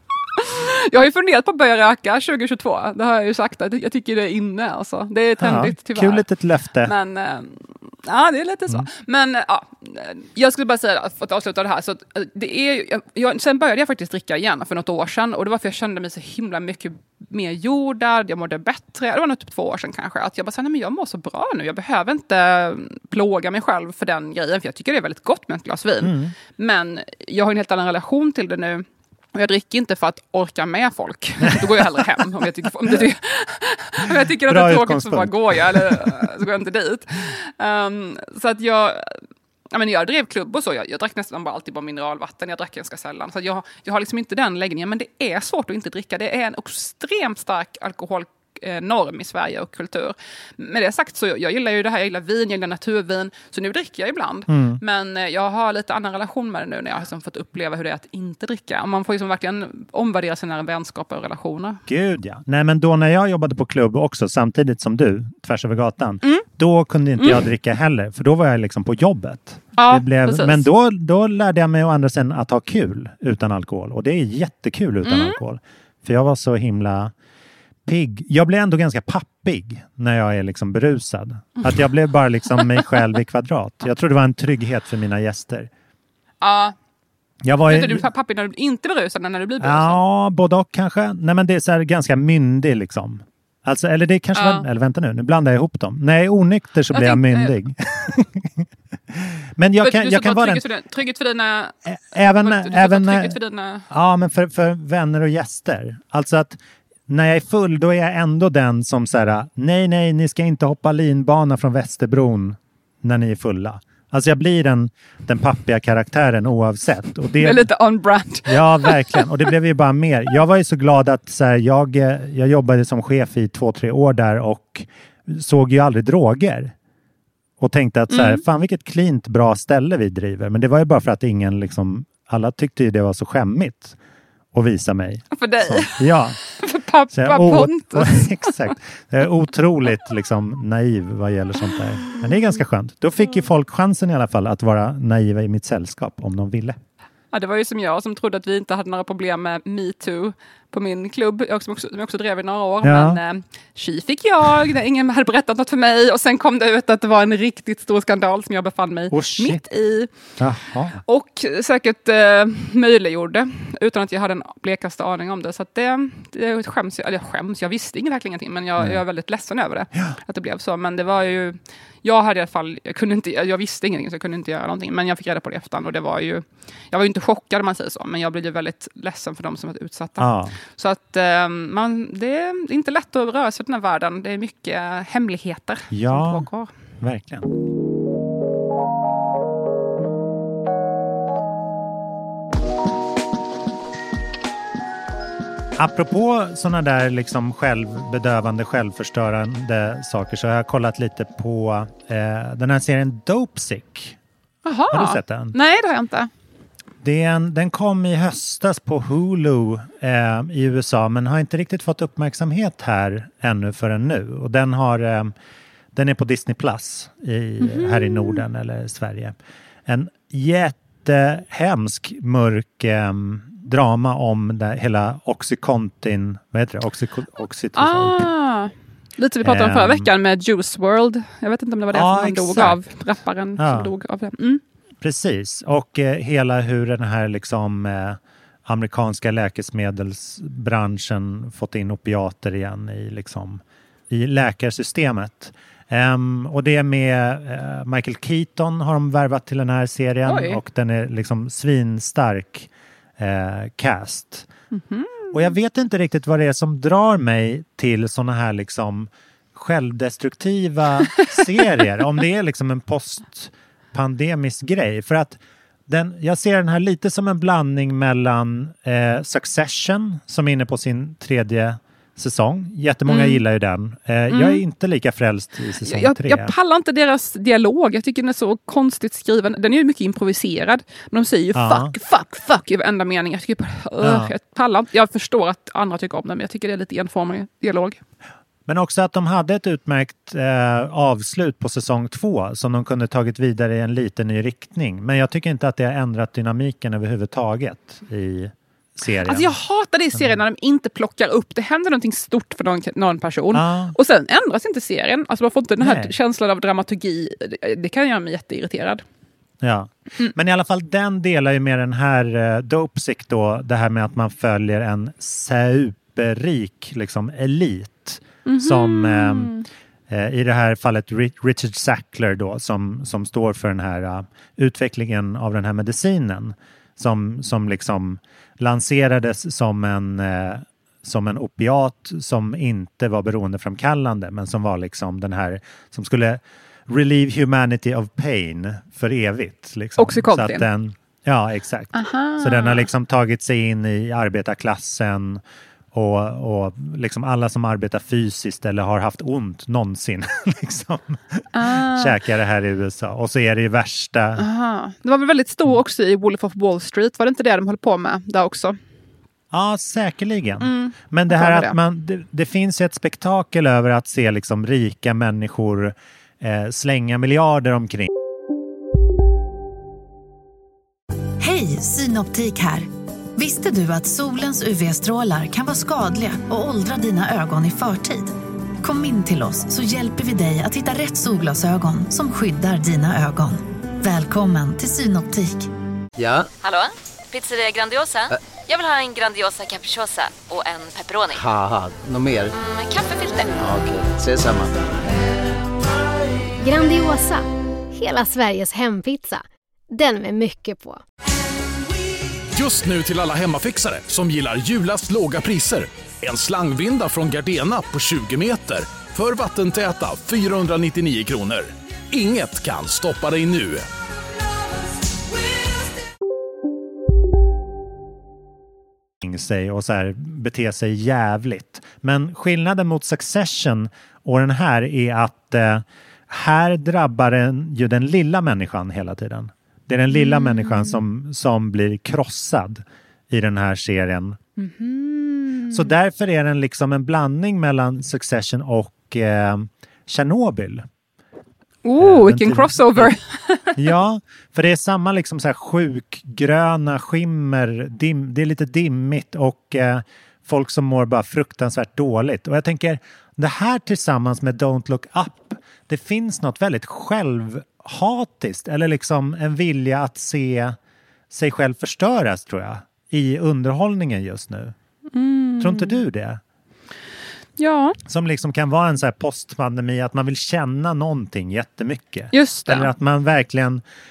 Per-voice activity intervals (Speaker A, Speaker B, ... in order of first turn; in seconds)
Speaker A: 0.3-6.2, 6.8-39.2, 39.7-61.8, 69.8-70.7, 75.0-75.4, 82.6-82.9, 86.4-86.8, 87.7-90.0, 94.3-94.7, 96.9-97.6, 99.8-103.9, 117.4-119.3, 128.1-128.4, 135.3-136.0, 136.6-138.5, 147.3-160.1, 161.0-186.7, 204.7-206.3, 217.6-218.4, 227.8-234.6, 250.3-250.6, 254.7-255.3, 273.1-273.4, 274.3-274.6, 275.9-288.0, 299.3-309.0, 318.5-319.7, 340.0-340.6, 341.9-342.9, 351.5-352.2, 354.4-358.8, 360.6-361.8, 430.1-431.0, 434.6-435.9, 441.9-443.9, 465.1-466.0, 467.6-468.0, 472.3-472.9
Speaker B: 5.4-6.9, 26.0-26.3, 31.5-32.2, 34.4-36.3, 54.5-54.8, 61.9-77.1, 77.9-85.7, 87.4-88.0, 89.6-100.6, 101.9-103.4, 103.9-106.6, 107.1-117.7, 118.5-126.7, 127.6-134.0, 134.5-136.4, 137.1-146.8, 152.8-153.2, 159.1-159.7, 160.4-161.0, 180.2-180.6, 185.9-186.5, 187.0-187.5, 195.8-204.2, 204.9-205.6, 207.0-215.3, 215.9-228.2, 229.4-230.1, 231.9-232.8, 233.6-233.9, 235.0-254.5, 255.3-276.5, 281.6-281.9, 284.0-284.3, 288.7-299.5, 303.5-303.9, 305.8-306.1, 309.6-319.5, 320.1-345.4, 345.9-354.4, 359.5-368.1, 419.2-434.4, 435.7-440.9, 442.0-443.1, 443.8-460.8, 461.3-464.8, 465.6-466.4, 468.1-473.8
Speaker C: 371.4-385.7
Speaker D: 386.2-386.5, 391.3-392.6, 393.6-394.9
Speaker E: 387.4-388.2, 388.7-391.4
Speaker F: 396.6-401.0
Speaker G: 402.6-413.9